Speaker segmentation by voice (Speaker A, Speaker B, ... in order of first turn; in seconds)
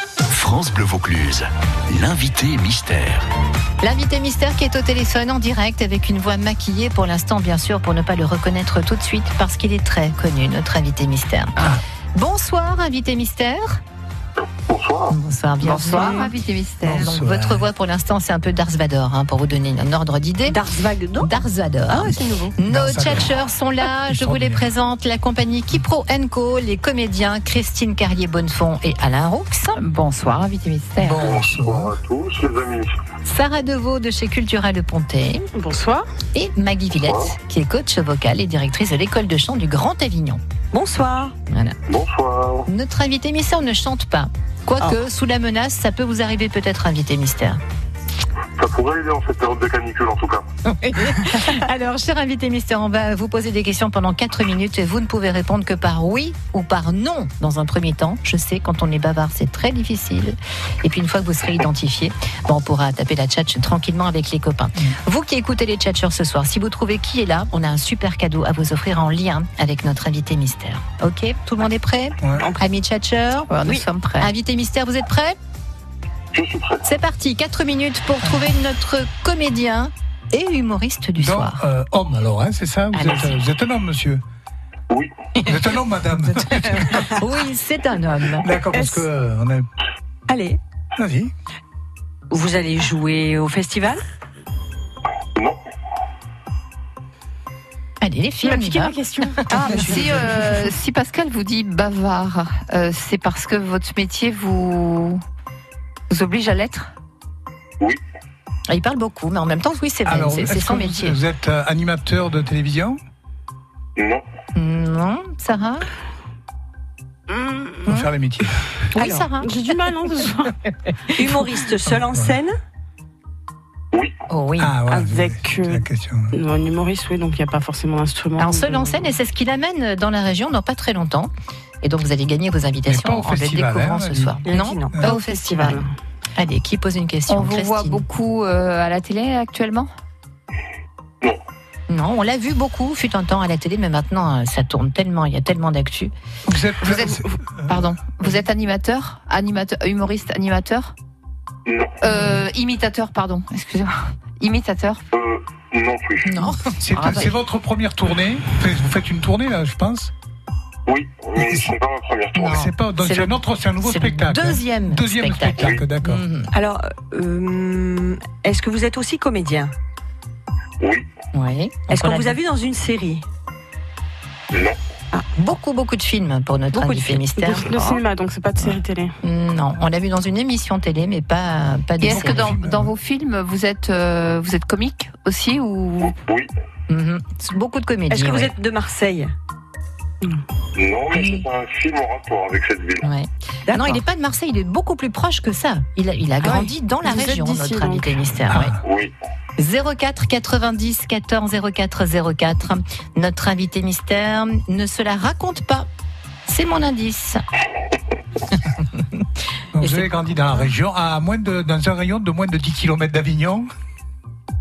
Speaker A: 0.3-3.3
Speaker B: 3.8-13.8, 15.1-20.6, 21.2-29.8, 33.3-35.5, 36.3-40.4, 41.5-41.8, 42.7-47.6, 50.6-75.4, 76.9-81.6, 82.9-83.4, 86.7-88.7, 98.0-99.0, 99.6-99.9, 108.7-111.2, 114.6-115.9, 119.0-119.6, 124.3-124.8, 128.4-131.3, 131.8-135.8, 136.4-138.0, 141.9-146.1, 162.4-166.5, 171.3-172.4, 175.4-178.0, 179.2-182.6, 186.9-188.5, 193.0-198.8, 199.6-205.9, 206.5-207.4, 209.8-210.1
Speaker C: 14.7-15.2, 31.1-32.9, 37.0-37.3, 41.9-42.7, 48.6-50.5, 76.3-76.8, 114.0-114.2, 151.7-152.0, 155.1-156.4, 160.9-162.7, 165.6-165.8, 170.8-171.1, 174.5-174.8, 186.0-186.5, 190.8-193.0, 198.8-199.1
Speaker D: 15.6-17.1, 29.8-31.4, 73.6-74.3, 99.5-105.2, 106.1-106.9, 137.3-139.9, 146.8-150.9, 152.0-155.0, 156.4-157.4, 182.0-186.2
Speaker E: 16.8-17.7, 22.7-23.5, 24.1-24.6, 31.0-31.9, 72.2-72.5, 81.2-84.2, 85.5-87.0, 88.4-89.7, 91.0-91.3, 110.1-113.0, 117.8-118.6, 121.8-122.4, 124.6-126.3, 132.9-134.4, 146.5-148.2, 156.8-160.1, 161.4-161.7, 162.4-166.2, 182.0-182.9, 198.5-198.8, 209.8-213.7
Speaker F: 20.5-22.5, 40.7-41.3, 72.4-72.6, 90.3-90.6, 92.3-94.0, 98.4-100.5, 121.1-122.6, 134.5-135.0, 166.5-169.7, 171.9-173.2, 176.8-177.3, 188.1-189.3, 193.7-194.0, 196.4-196.7
Speaker G: 35.5-36.1, 117.3-117.8, 119.4-120.5, 124.9-129.1, 135.0-135.9, 177.4-179.2, 197.5-198.0